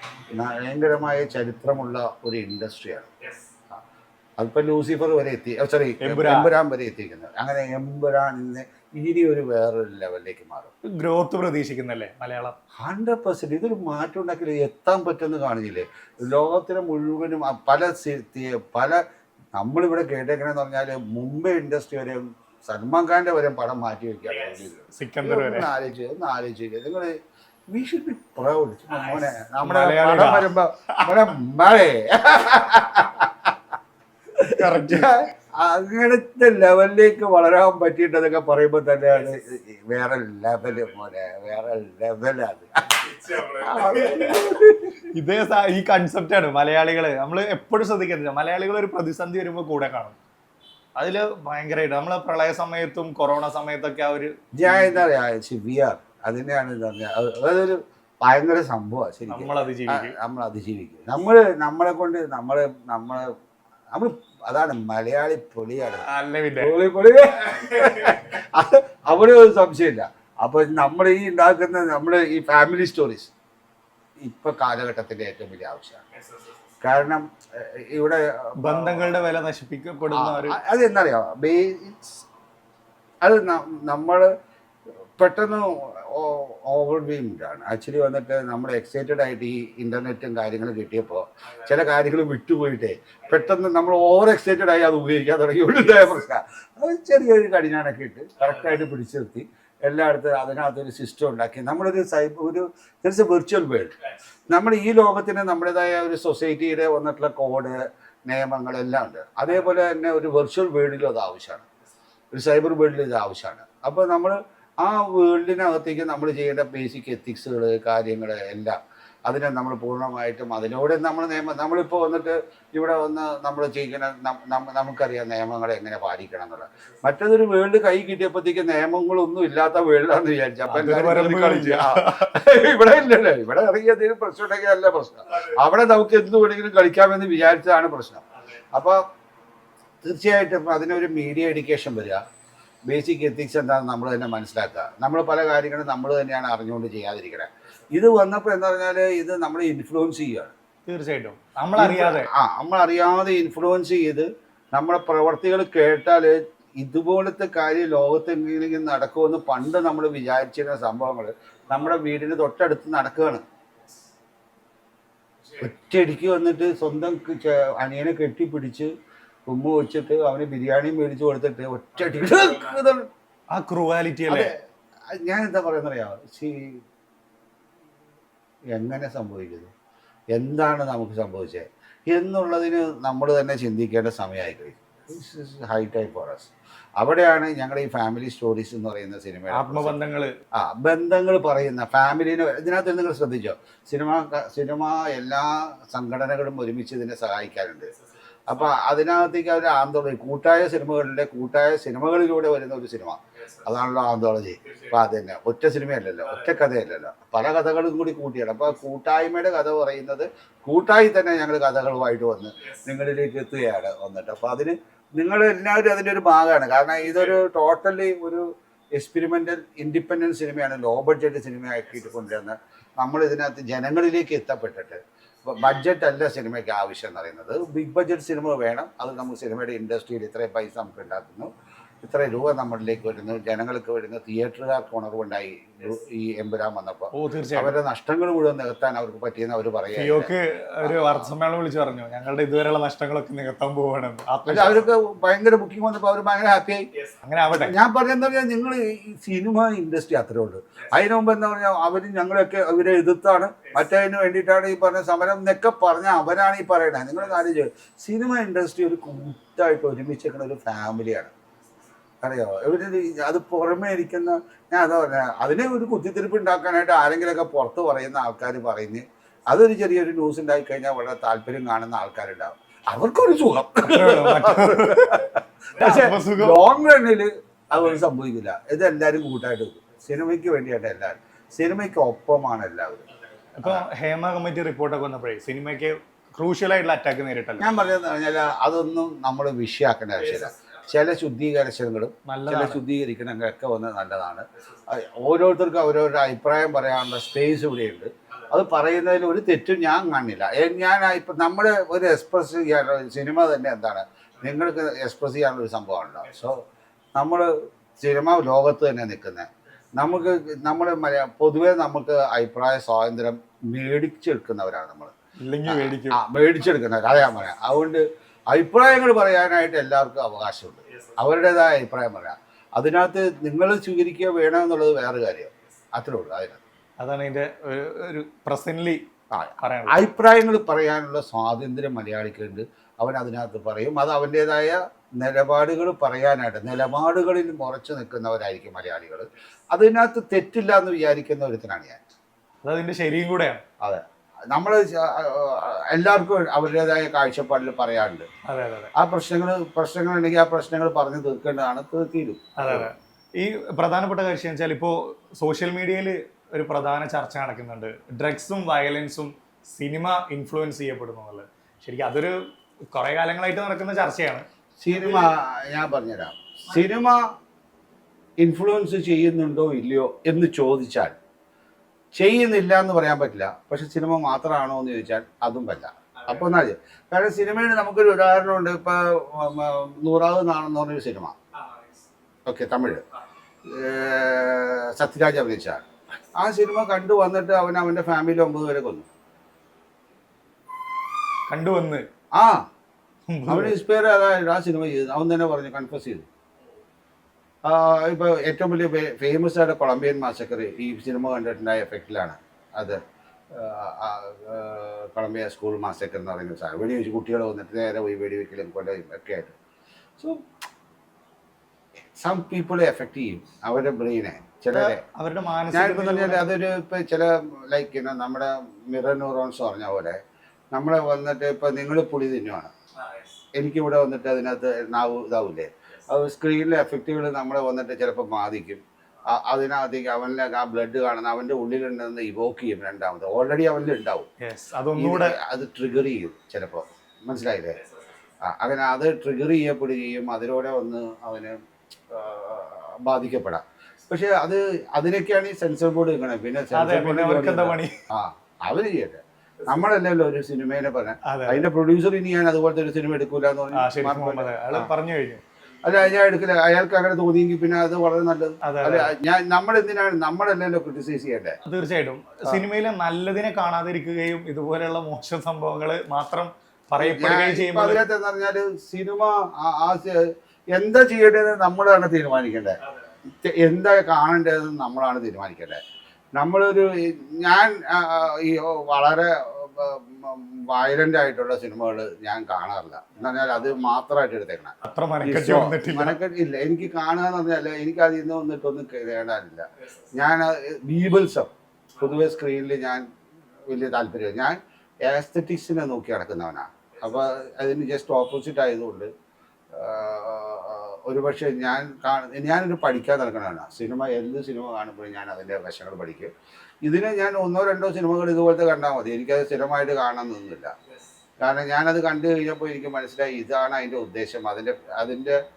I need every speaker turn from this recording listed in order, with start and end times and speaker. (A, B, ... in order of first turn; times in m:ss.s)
0:00.3-0:03.1 A
0:04.4-0:10.7 A
0:06.0-0:06.5 B
0:11.0-0:12.6 B
0:12.8-0:19.0 A
0:19.6-0:27.1 A
0:24.9-0:25.7 B
0:27.7-0:33.6 A
0:29.6-0:31.3 B
0:34.3-0:45.0 A
0:34.5-0:35.2 B
0:43.0-0:44.6 B
0:45.1-0:50.2 B
0:51.0-0:55.0 B
0:54.5-1:03.3 A
0:59.3-1:00.2 B
1:03.9-1:06.0 A
1:06.0-1:06.7 B
1:06.6-1:13.3 A
1:14.2-1:16.0 A
1:16.8-1:19.2 A
1:18.6-1:20.6 B
1:20.1-1:22.2 A
1:23.2-1:24.3 A
1:25.2-1:44.0 A
1:44.5-1:51.6 A
1:52.3-2:19.0 A
2:10.7-2:12.3 B
2:20.0-2:22.2 A
2:22.8-2:30.5 A
2:30.8-2:32.3 B
2:31.7-2:43.4 A
2:45.6-2:48.9 A
2:49.4-2:53.1 A
2:53.5-2:54.5 B
2:54.3-2:54.6 A
2:55.1-2:56.8 A
2:58.7-2:59.7 A
3:00.3-3:10.0 A
3:09.5-3:10.3 B
3:10.5-3:17.9 A
3:18.5-3:51.5 A
3:52.0-4:00.3 A
3:57.1-3:57.8 B
3:59.9-4:04.8 B
4:00.8-4:01.3 A
4:04.5-4:06.8 A
4:07.2-4:07.8 B
4:07.5-4:21.3 A
4:22.2-4:43.0 A
4:33.8-4:36.6 B
4:43.6-4:47.7 B
4:43.6-4:43.9 A
4:47.6-5:06.6 A
4:52.3-4:52.8 B
5:07.2-5:15.1 A
5:15.4-5:16.2 B
5:15.6-5:26.6 A
5:27.0-5:29.0 B
5:29.3-5:42.0 A
5:29.6-5:30.0 B
5:42.6-5:43.6 B
5:43.8-5:48.3 A
5:48.4-5:48.9 B
5:49.0-5:52.9 A
5:52.6-6:02.4 B
6:02.9-6:04.4 B
6:04.8-6:07.2 A
6:08.4-6:11.2 A
6:12.1-6:21.4 A
6:21.6-6:22.0 B
6:22.5-6:23.0 A
6:23.6-6:29.1 A
6:31.5-6:32.0 B
6:32.3-6:32.6 A
6:33.3-6:33.8 B
6:33.5-6:36.2 A
6:37.6-6:43.0 A
6:43.5-6:49.5 A
6:52.2-6:55.0 A
6:54.7-6:56.5 B
6:55.7-7:00.2 A
7:00.7-7:02.7 A
7:03.0-7:03.3 B
7:03.5-7:14.3 A
7:14.4-7:15.4 B
7:15.0-7:17.8 A
7:18.4-7:21.6 A
7:22.1-7:34.9 A
7:26.7-7:28.0 B
7:31.2-7:31.7 B
7:33.7-7:35.4 B
7:35.8-7:41.6 A
7:38.6-7:39.1 B
7:41.6-7:48.0 B
7:47.0-7:52.8 A
7:53.4-7:55.8 A
7:56.4-8:13.0 A
8:04.8-8:06.2 B
8:13.7-8:19.1 A
8:19.7-8:26.3 A
8:26.8-8:30.7 A
8:31.4-8:35.4 A